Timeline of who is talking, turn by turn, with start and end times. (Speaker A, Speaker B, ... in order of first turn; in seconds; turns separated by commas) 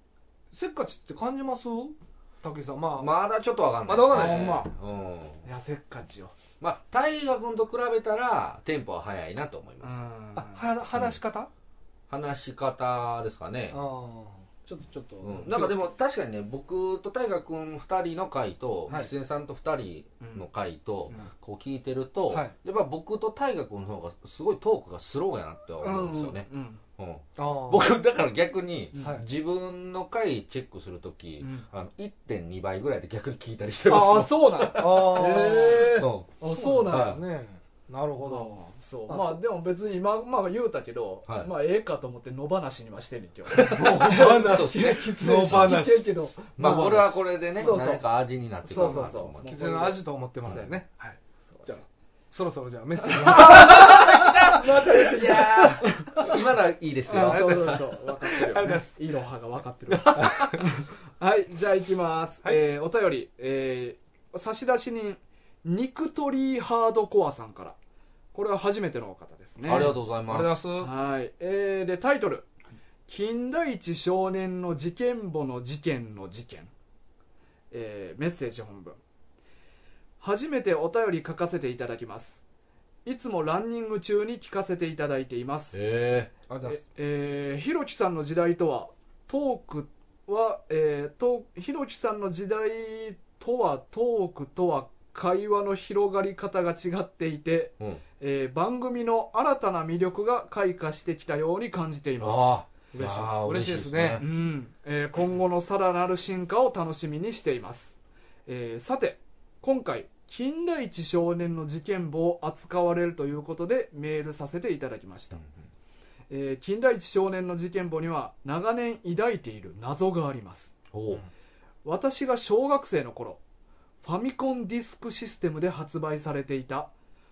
Speaker A: 0.5-3.1, Speaker B: 3.0-5.4, Speaker A: 3.8-4.6, Speaker C: 4.1-4.7, Speaker C: 5.4-6.3, Speaker B: 6.6-10.0, Speaker C: 9.8-10.6, Speaker A: 10.3-11.5, Speaker B: 12.1-13.8, Speaker A: 13.7-15.8, Speaker B: 15.2-36.3, Speaker C: 20.2-20.4, Speaker C: 25.8-26.8, Speaker A: 27.4-27.9, Speaker C: 28.9-29.2, Speaker C: 31.4-31.6, Speaker C: 33.9-37.2, Speaker A: 34.8-36.0, Speaker A: 36.5-38.6, Speaker B: 36.9-37.2, Speaker C: 38.2-48.0, Speaker A: 39.1-39.4, Speaker A: 43.5-47.8, Speaker B: 43.6-45.8, Speaker B: 46.6-49.7, Speaker C: 48.6-50.7, Speaker A: 49.4-56.3, Speaker B: 50.4-50.7, Speaker C: 53.0-56.3, Speaker B: 53.2-57.8, Speaker C: 57.1-67.8, Speaker A: 57.1-59.0, Speaker B: 60.1-60.5, Speaker A: 60.1-60.5, Speaker C: 68.3-69.9, Speaker B: 69.7-70.5, Speaker A: 69.7-70.9, Speaker C: 70.8-72.5, Speaker C: 73.1-76.7, Speaker C: 77.7-79.0, Speaker C: 80.2-82.4, Speaker C: 83.0-85.8, Speaker B: 85.7-86.3, Speaker A: 86.5-86.8, Speaker C: 86.6-103.3, Speaker B: 102.2-104.2, Speaker A: 103.0-104.2, Speaker C: 104.2-115.4, Speaker C: 116.3-120.7, Speaker B: 120.9-121.2, Speaker C: 121.8-123.4, Speaker C: 124.0-126.9